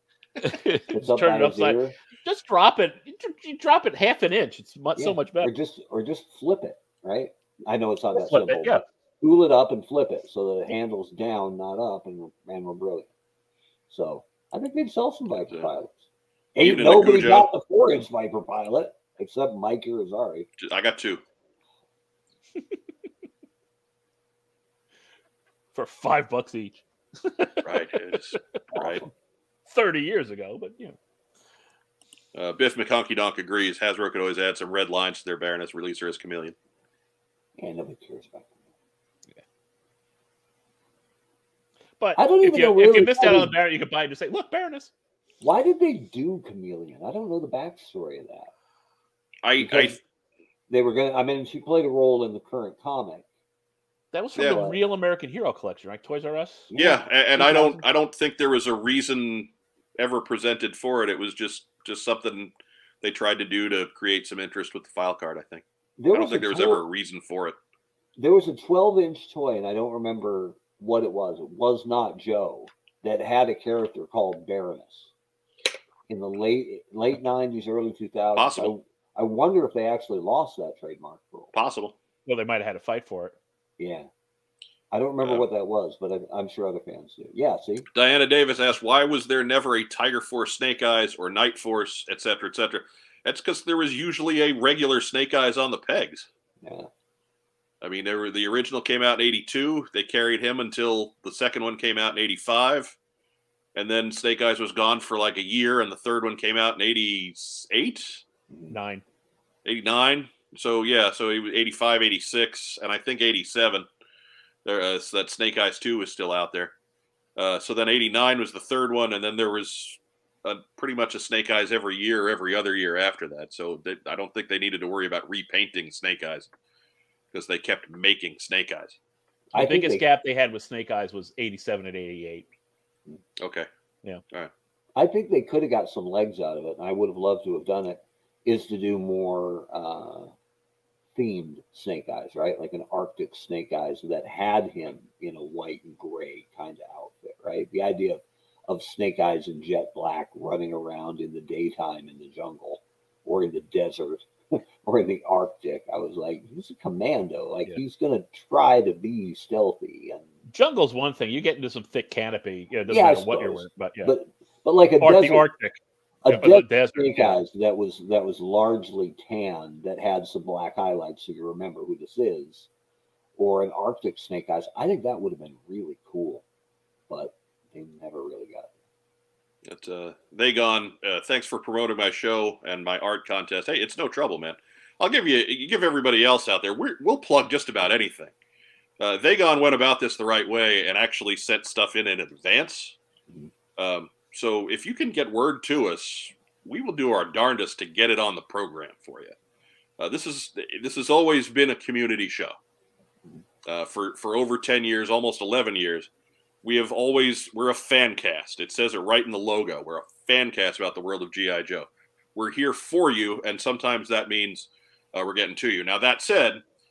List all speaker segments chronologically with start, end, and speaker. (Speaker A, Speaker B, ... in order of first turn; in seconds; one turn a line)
Speaker A: 0.4-5.5
Speaker B: 0.9-1.9
Speaker B: 5.0-13.1
Speaker A: 8.1-8.8
Speaker B: 13.9-16.0
Speaker B: 16.5-20.5
Speaker C: 16.6-17.5
Speaker C: 20.6-21.2
Speaker A: 25.7-27.8
Speaker C: 27.6-29.0
Speaker B: 28.7-29.1
Speaker A: 29.7-30.9
Speaker C: 32.3-36.5
Speaker B: 37.6-38.5
Speaker A: 42.0-44.9
Speaker B: 42.2-43.5
Speaker B: 45.4-48.5
Speaker C: 49.4-50.0
Speaker B: 49.6-50.0
Speaker B: 50.7-53.2
Speaker A: 54.1-56.7
Speaker B: 54.4-54.8
Speaker B: 56.7-57.8
Speaker C: 56.7-67.6
Speaker B: 66.0-66.8
Speaker B: 68.2-75.1
Speaker B: 76.1-81.5
Speaker C: 78.3-78.7
Speaker C: 81.5-81.9
Speaker A: 82.2-83.3
Speaker B: 83.8-84.1
Speaker B: 84.9-87.8
Speaker C: 87.9-96.3
Speaker B: 96.6-96.9
Speaker C: 97.8-102.9
Speaker C: 103.7-108.2
Speaker B: 108.5-108.7
Speaker A: 108.7-109.0
Speaker C: 109.6-113.9
Speaker C: 114.6-116.7
Speaker C: 117.3-126.5
Speaker C: 127.3-129.0
Speaker B: 129.5-130.0
Speaker A: 129.5-132.4
Speaker C: 133.4-133.7
Speaker B: 134.9-140.3
Speaker B: 141.1-160.3
Speaker A: 160.5-164.1
Speaker B: 162.9-165.4
Speaker A: 165.0-167.4
Speaker B: 166.2-172.7
Speaker B: 173.4-176.4
Speaker B: 177.1-178.7
Speaker C: 179.6-188.3
Speaker C: 189.0-193.0
Speaker C: 193.8-199.3
Speaker C: 200.0-202.6
Speaker C: 203.6-206.1
Speaker C: 206.6-216.6